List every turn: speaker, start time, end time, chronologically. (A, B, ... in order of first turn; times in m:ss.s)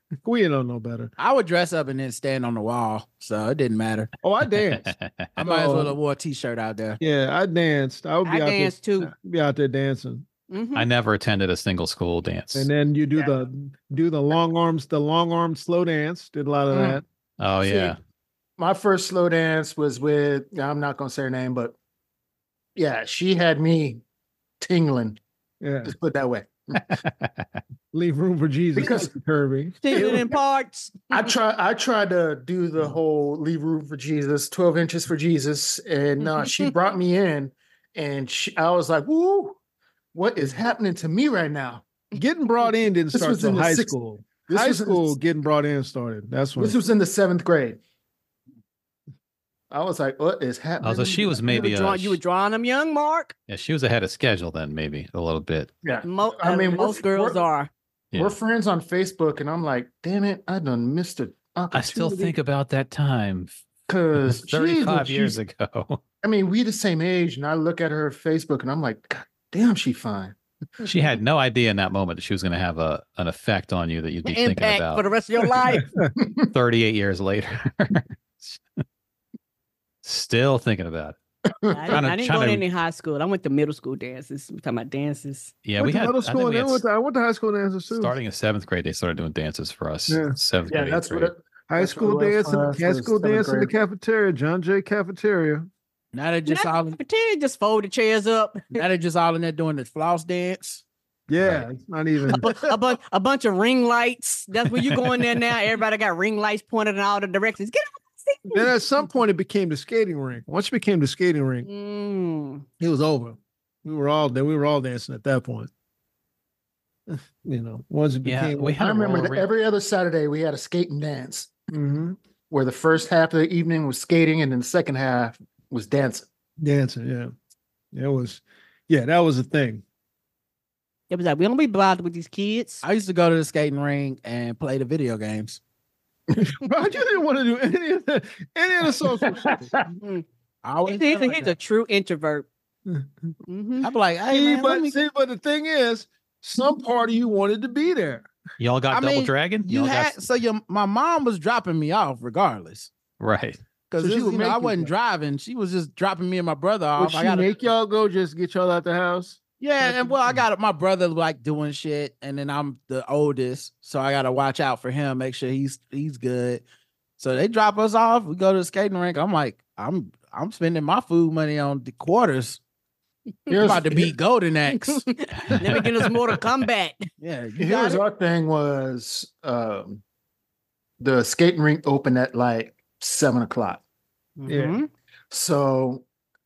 0:00.2-0:01.1 A
0:01.2-0:04.1 B
0:04.2-0:06.0 A
0:04.7-0:05.4 C
0:05.4-0:07.0 B
0:07.0-0:10.2 A
0:08.2-0:09.1 D
0:10.5-0:10.9 D
0:10.7-0:12.7 C
0:12.5-0:17.0 A
0:16.7-0:17.0 E
0:17.4-0:18.0 C
0:17.6-0:17.9 E
0:18.6-0:21.7 E
0:22.8-0:24.0 E
0:24.6-0:25.2 E
0:25.6-0:25.9 A
0:25.8-0:27.0 E
0:27.0-0:27.4 C
0:27.9-0:30.2 A
0:28.7-0:29.1 E
0:29.8-0:31.3 D
0:29.9-0:30.3 E
0:31.1-0:39.6 E
0:36.2-0:36.7 D
0:40.1-0:41.8 E
0:42.1-0:46.8 A
0:43.1-0:43.9 E
0:44.5-0:45.2 E
0:46.6-0:47.8 E
0:49.7-0:51.7 E
0:50.8-0:52.2 C
0:51.4-0:53.3 D
0:53.5-0:55.7 C
0:55.8-0:57.5 E
0:56.0-0:57.7 D
0:58.2-1:02.3 E
1:01.7-1:03.5 C
1:03.9-1:05.4 E
1:04.1-1:06.0 C
1:06.2-1:10.3 E
1:10.8-1:15.0 C
1:14.2-1:15.9 D
1:16.2-1:16.5 E
1:16.5-1:18.6 C
1:20.0-1:21.2 C
1:21.6-1:22.0 E
1:21.7-1:25.5 D
1:21.9-1:22.6 C
1:25.6-1:26.8 C
1:25.8-1:28.1 A
1:27.9-1:31.3 C
1:30.1-1:30.4 A
1:30.7-1:33.7 E
1:31.7-1:35.7 A
1:36.1-1:37.0 B
1:36.5-1:38.8 D
1:38.7-1:40.8 B
1:41.3-1:42.4 A
1:41.4-1:41.6 C
1:42.3-1:48.7 D
1:48.5-1:51.7 A
1:51.6-1:52.6 D
1:52.8-1:55.7 A
1:57.1-1:58.8 A
1:58.2-1:59.5 C
1:58.8-2:01.6 E
2:01.7-2:02.2 A
2:02.5-2:06.2 E
2:06.6-2:07.3 A
2:07.9-2:09.8 A
2:11.1-2:12.8 D
2:12.8-2:15.6 B
2:16.4-2:19.6 A
2:19.4-2:19.7 E
2:20.0-2:20.2 D
2:20.6-2:21.6 B
2:20.8-2:22.4 D
2:23.5-2:23.9 D
2:23.8-2:25.0 B
2:24.3-2:28.3 A
2:28.6-2:30.2 C
2:28.9-2:32.9 B
2:33.2-2:33.6 C
2:33.9-2:37.6 B
2:34.0-2:34.9 A
2:37.0-2:40.4 A
2:39.6-2:46.6 B
2:47.2-2:52.6 B
2:53.5-2:53.7 D
2:53.5-2:54.2 E
2:53.6-2:55.0 B
2:55.1-2:57.0 D
2:57.2-2:58.0 B
2:57.6-3:00.0 E
3:01.0-3:03.8 E
3:04.4-3:04.9 D
3:04.5-3:04.8 A
3:05.3-3:06.0 E